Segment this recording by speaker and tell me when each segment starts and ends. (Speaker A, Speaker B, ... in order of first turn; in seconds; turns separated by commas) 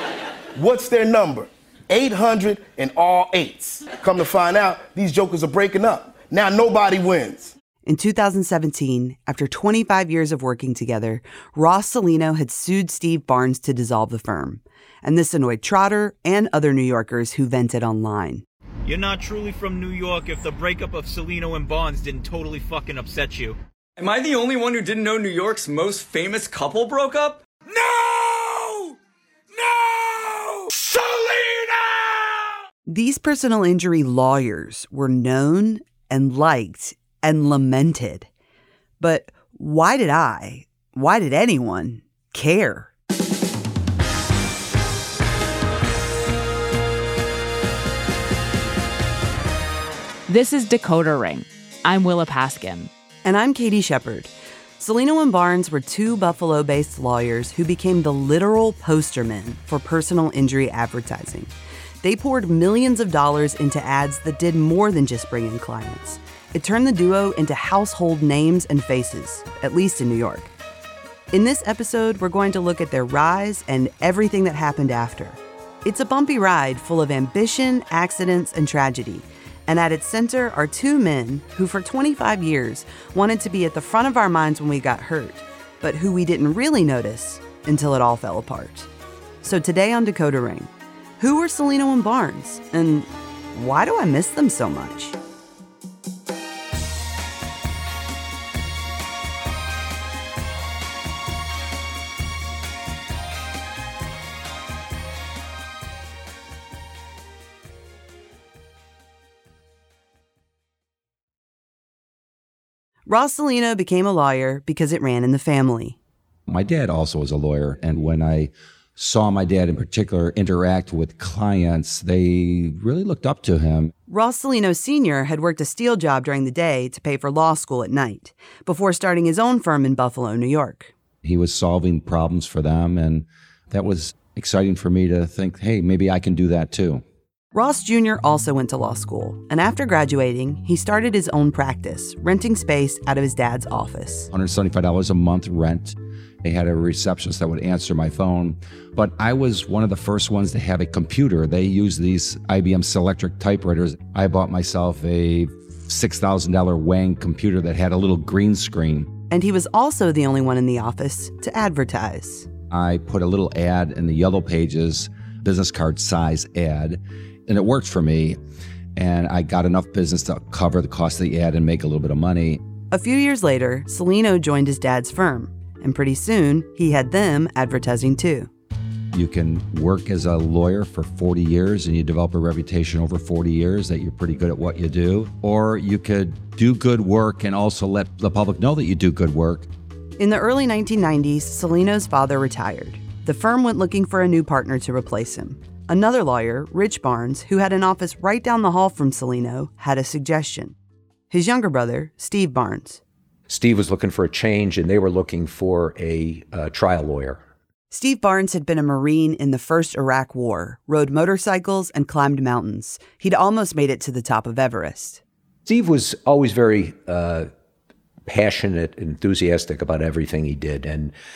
Speaker A: 0.6-7.5, Speaker B: 7.8-18.4, Speaker C: 18.9-23.6, Speaker D: 24.0-27.4, Speaker B: 32.9-38.3, Speaker B: 39.0-42.9, Speaker E: 50.3-52.9, Speaker B: 53.2-70.5, Speaker B: 71.3-88.9, Speaker B: 89.4-95.2, Speaker B: 113.1-116.0, Speaker F: 116.5-123.9, Speaker B: 124.1-130.9, Speaker F: 131.2-137.0, Speaker B: 137.5-144.3, Speaker F: 144.3-159.1, Speaker B: 159.3-162.5, Speaker F: 162.7-168.4, Speaker F: 168.9-172.6, Speaker B: 172.9-178.5, Speaker F: 179.1-189.7, Speaker B: 190.2-200.7, Speaker B: 201.3-203.0, Speaker G: 203.5-207.4, Speaker B: 207.9-215.2, Speaker G: 215.7-217.5, Speaker G: 218.3-221.1